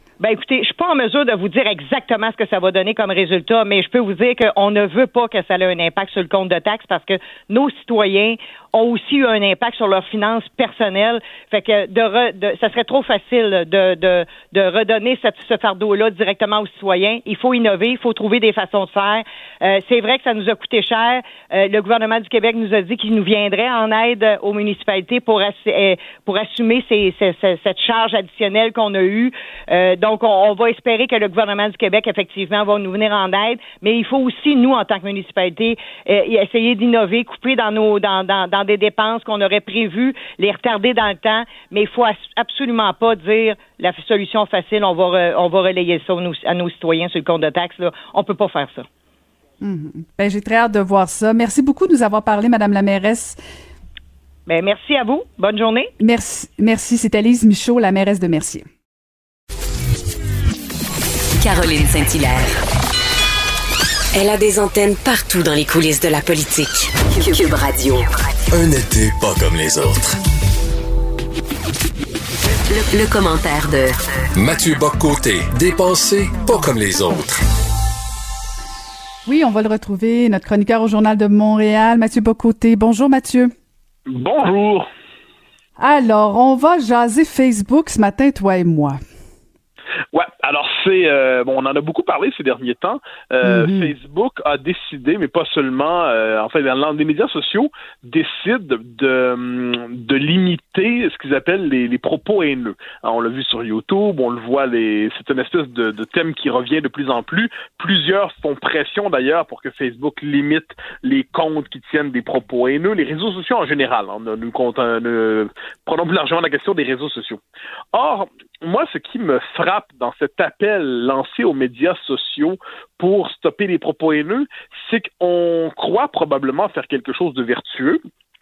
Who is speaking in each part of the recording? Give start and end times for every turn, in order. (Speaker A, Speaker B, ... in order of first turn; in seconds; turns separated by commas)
Speaker A: 0.2-48.9, Speaker B: 49.6-53.4, Speaker A: 54.5-55.9, Speaker B: 56.0-58.6, Speaker C: 61.4-62.6, Speaker C: 64.1-68.1, Speaker D: 68.5-70.2, Speaker C: 72.7-74.0, Speaker D: 74.4-77.4, Speaker B: 79.2-83.5, Speaker E: 84.1-84.9, Speaker B: 85.8-89.0, Speaker E: 90.1-117.4, Speaker B: 93.4-93.9, Speaker E: 117.9-128.0